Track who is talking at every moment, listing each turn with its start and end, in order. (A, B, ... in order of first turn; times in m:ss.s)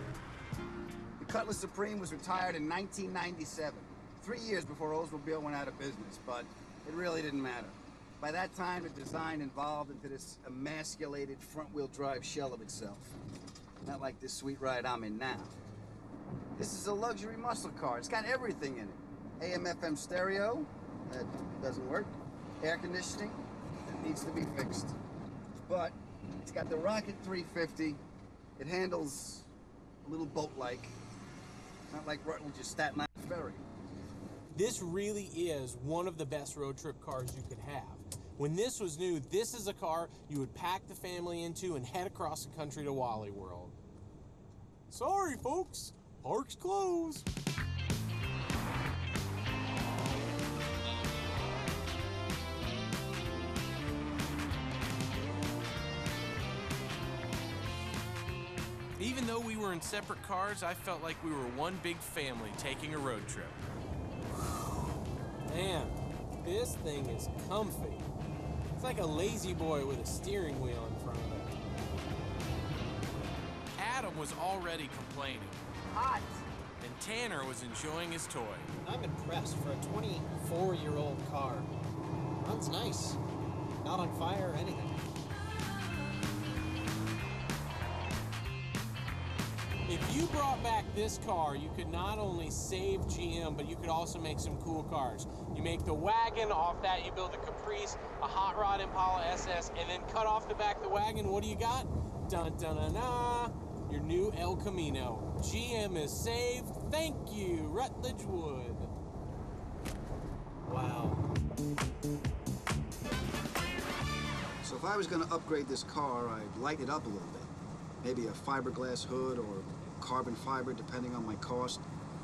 0:01.2-0:13.2 A
0:13.8-0:15.5 A
0:16.6-0:25.0 A
0:25.7-0:28.0 A
0:28.6-0:29.5 A
0:30.0-0:30.9 A
0:31.9-0:33.7 A
0:34.5-0:43.8 B
0:44.9-0:47.2 B
0:59.0-1:03.6 B
1:05.5-1:08.1 B
1:08.8-1:11.5 B
1:13.8-1:15.6 B
1:16.0-1:16.2 A
1:16.8-1:18.7 B
1:18.8-1:21.7 C
1:22.4-1:23.2 C
1:23.8-1:25.0 C
1:29.9-1:48.9 B
1:50.7-1:51.2 C
1:54.6-2:01.8 A